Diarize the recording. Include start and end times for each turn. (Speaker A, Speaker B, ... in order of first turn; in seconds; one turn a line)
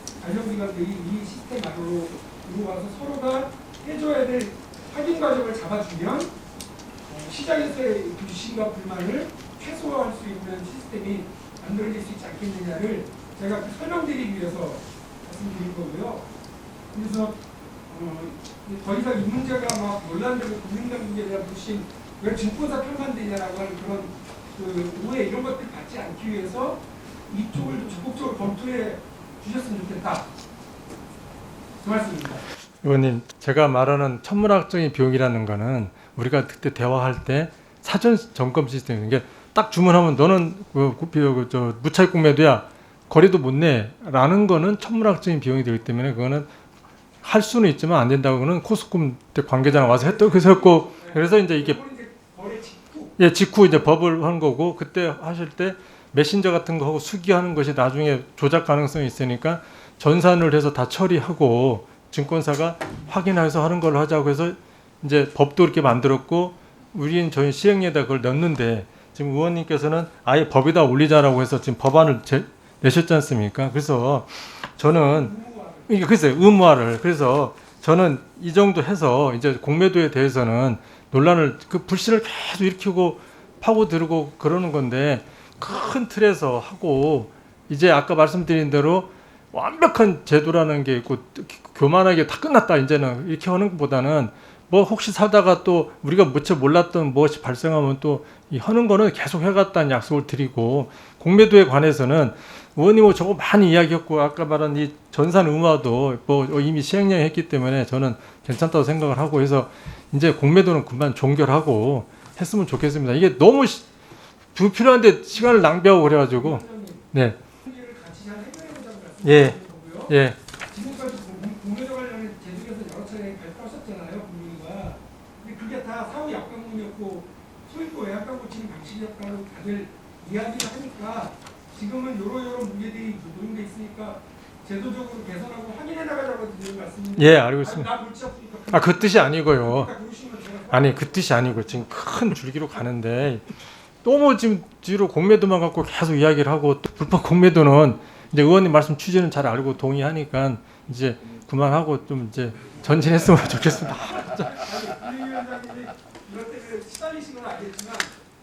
Speaker A: 0.2-6.3
Speaker A: 7.1-16.3
Speaker A: 16.9-30.2
Speaker A: 31.8-32.4
Speaker B: 32.8-46.5
Speaker B: 47.2-51.8
Speaker A: 49.7-53.2
Speaker B: 53.2-75.3
Speaker A: 74.9-76.1
Speaker B: 75.9-113.8
Speaker B: 114.5-116.6
Speaker A: 115.4-117.0
Speaker A: 117.6-120.2
Speaker B: 119.2-119.6
Speaker B: 120.1-120.4
Speaker A: 120.7-141.8
Speaker B: 137.2-137.9
Speaker B: 138.7-139.9
Speaker B: 140.7-143.4
Speaker B: 144.0-154.5
Speaker A: 154.4-158.1